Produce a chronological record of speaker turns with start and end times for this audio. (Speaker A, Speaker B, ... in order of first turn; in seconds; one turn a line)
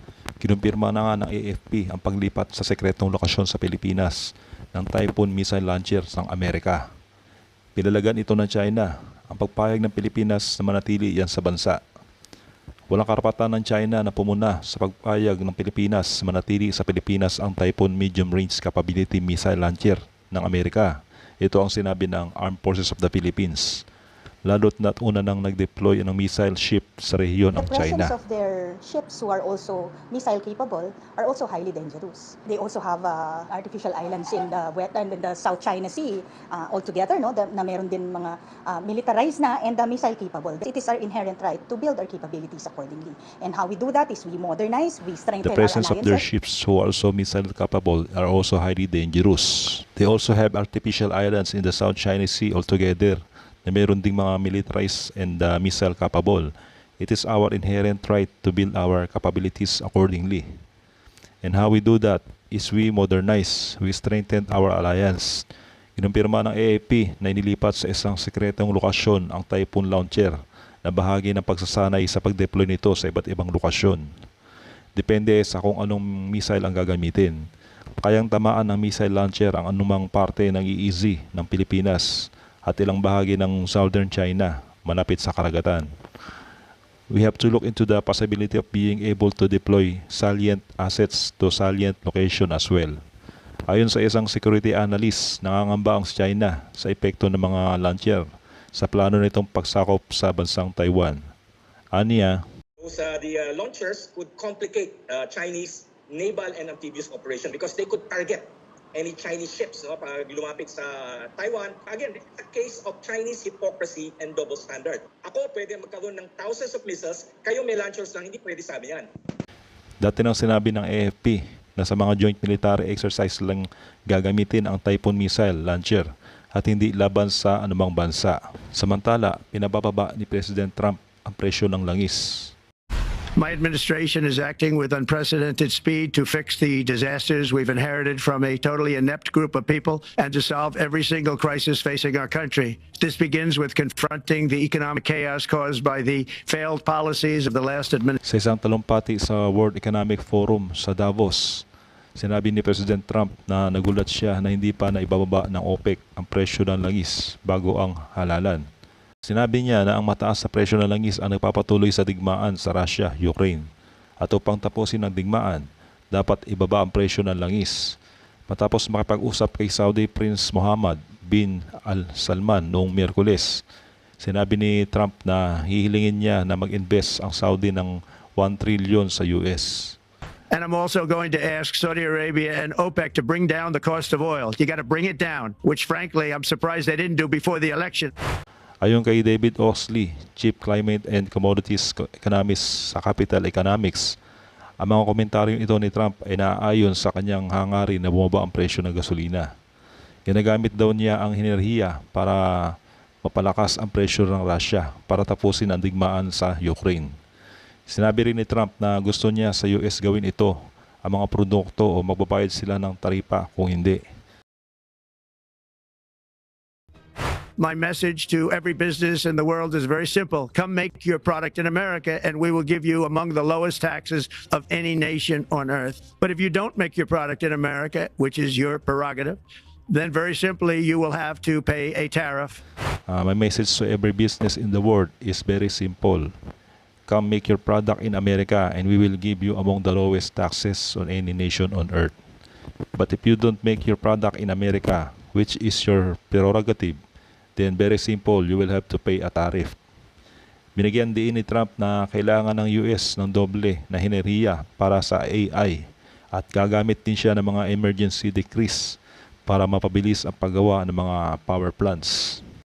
Speaker A: 0.4-6.8
Speaker A: 7.8-11.8
Speaker A: 12.9-23.8
Speaker A: 24.4-28.1
Speaker B: 27.5-46.2
Speaker A: 45.4-60.5
Speaker A: 61.4-65.4
Speaker A: 66.0-74.0
Speaker A: 75.0-77.4
Speaker A: 78.0-82.1
Speaker A: 82.7-85.9
Speaker A: 87.1-93.0
Speaker A: 93.7-101.2
Speaker A: 101.9-102.4
Speaker C: 102.8-119.1
Speaker A: 120.0-132.5
Speaker D: 133.3-148.2
Speaker A: 148.2-151.6
Speaker A: 152.2-158.6
Speaker A: 159.2-163.7
Speaker A: 164.2-167.9
Speaker A: 168.5-173.6
Speaker A: 174.2-180.0
Speaker D: 180.5-188.1
Speaker A: 188.8-194.1
Speaker A: 194.8-199.5
Speaker A: 200.3-207.1
Speaker A: 207.9-214.0
Speaker D: 217.6-232.6
Speaker A: 233.1-236.3
Speaker A: 237.1-242.1
Speaker A: 242.9-247.0
Speaker A: 247.6-249.8
Speaker A: 250.8-255.8
Speaker A: 256.3-258.9
Speaker A: 259.5-262.4